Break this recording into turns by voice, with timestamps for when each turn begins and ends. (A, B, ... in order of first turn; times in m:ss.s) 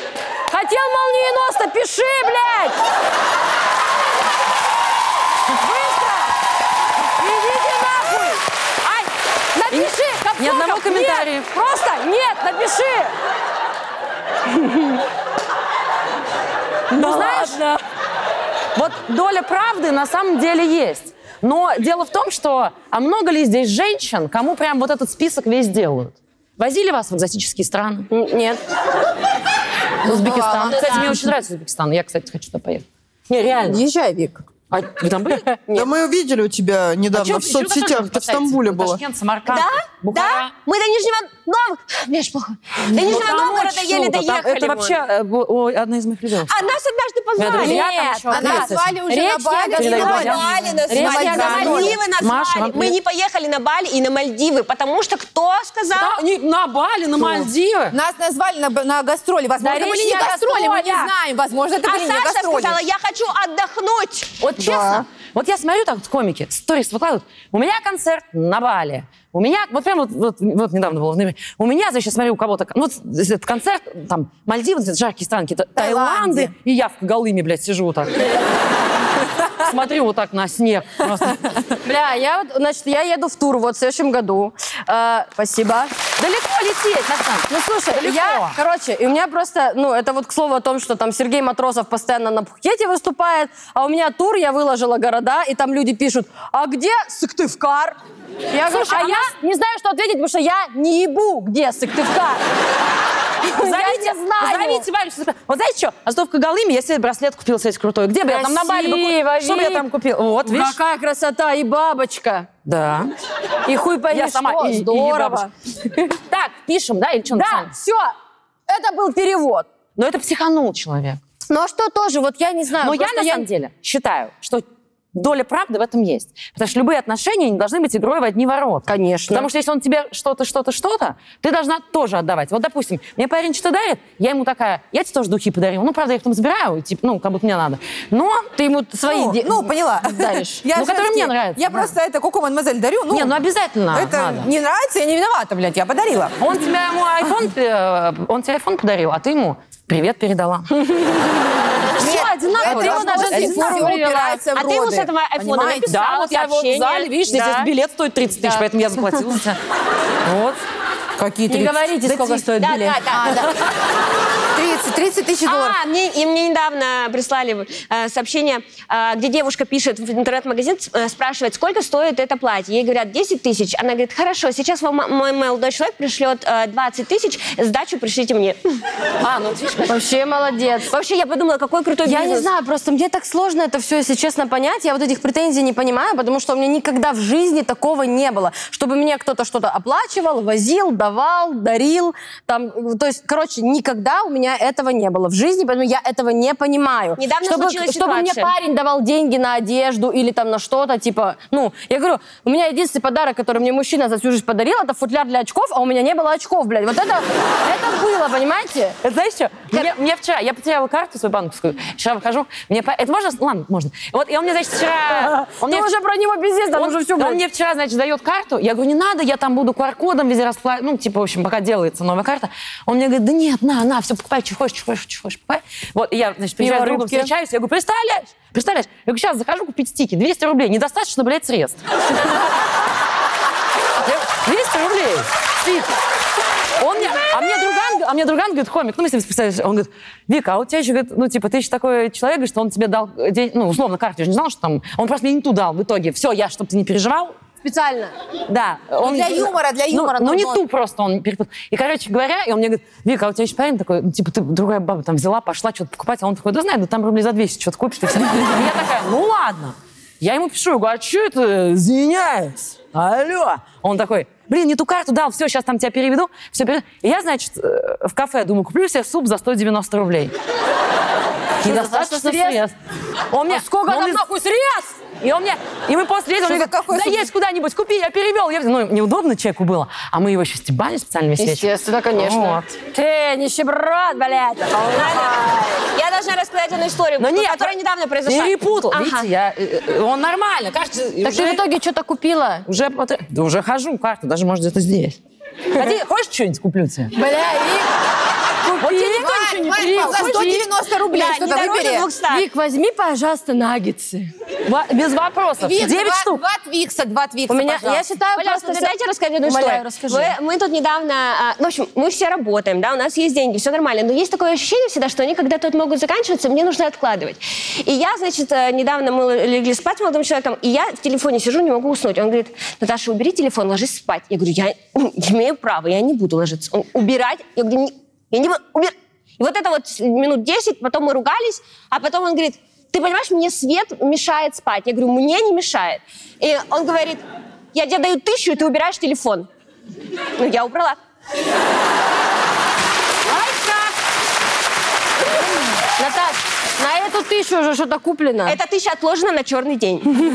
0:00.5-0:02.8 A
0:05.5-0:06.4 A
0:07.2-0:13.1 A
0:09.7-0:11.5 B
0:14.5-0:15.0 A
0:16.9-0:17.8 A
0:16.9-0:17.6 B
0:18.8-0:28.1 B
0:28.1-0:28.6 A
0:30.0-0:31.2 C
0:30.0-0:33.8 B
0:30.7-0:31.1 D
0:33.7-0:34.4 A
0:34.7-0:35.5 B
0:35.7-0:39.0 E
0:37.1-0:40.5 B
0:39.5-0:45.0 D
0:42.9-0:46.7 B
0:46.5-0:47.8 D
0:47.4-0:48.9 B
0:47.6-0:52.0 A
0:48.3-0:52.0 C
0:49.8-0:50.5 B
0:49.8-0:56.2 D
0:51.4-0:53.0 B
0:55.9-0:58.0 B
0:57.2-1:02.8 C
0:59.6-1:01.1 A
1:01.8-1:04.4 D
1:04.4-1:18.3 B
1:04.6-1:05.0 E
1:15.8-1:16.5 C
1:19.4-1:21.6 B
1:21.8-1:25.9 A
1:26.2-1:28.6 B
1:27.5-1:38.0 A
1:38.5-1:42.4 A
1:38.6-1:39.3 B
1:43.4-1:44.8 A
1:43.5-1:50.8 B
1:48.3-1:49.9 A
1:50.4-1:52.5 A
1:52.6-1:53.1 B
1:53.7-1:55.5 A
1:54.1-1:55.5 B
1:56.3-1:57.7 B
1:57.3-1:58.1 A
1:58.7-1:59.7 A
2:00.0-2:01.2 B
2:01.5-2:03.5 A
2:02.8-2:18.5 B
2:08.9-2:09.5 A
2:18.6-2:20.7 A
2:19.1-2:23.4 C
2:20.8-2:21.9 B
2:23.1-2:24.5 B
2:23.9-2:26.4 C
2:26.4-2:30.7 B
2:30.9-2:31.2 A
2:32.0-2:34.1 B
2:32.0-2:35.9 C
2:32.0-2:34.4 A
2:34.5-2:37.7 D
2:35.6-2:39.6 B
2:40.2-2:40.6 B
2:41.2-2:43.5 C
2:41.5-2:43.0 A
2:42.6-2:43.6 D
2:44.6-2:45.8 C
2:45.4-2:58.6 D
2:59.2-3:00.0 B
2:59.9-3:00.9 A
3:00.9-3:02.5 D
3:02.0-3:29.0 A
3:17.2-3:18.5 D
3:29.0-3:35.9 B
3:35.1-3:37.4 A
3:36.8-3:52.5 B
3:46.6-3:47.3 A
3:54.0-3:56.0 B
3:56.8-4:07.4 B
4:07.6-4:08.1 A
4:08.5-4:30.3 B
4:09.0-4:10.6 C
4:31.6-4:32.6 A
4:31.6-4:32.7 B
4:33.3-4:34.2 B
4:33.5-4:35.0 A
4:35.2-4:42.7 B
4:36.4-4:37.3 C
4:41.4-4:45.4 A
4:44.8-4:49.3 D
4:47.2-4:47.7 B
4:48.3-4:51.6 B
4:51.2-4:52.7 A
4:52.7-4:55.2 B
4:55.8-4:57.2 B
4:57.1-4:57.9 A
4:58.6-5:00.7 A
4:58.8-5:00.1 B
4:59.0-5:02.1 C
5:01.1-5:02.5 D
5:02.3-5:04.3 A
5:04.7-5:06.4 B
5:05.6-5:08.0 C
5:07.5-5:10.3 A
5:08.4-5:37.2 D
5:37.7-5:39.5 D
5:40.4-5:41.0 D
5:46.0-5:48.6 A
5:48.5-5:50.1 D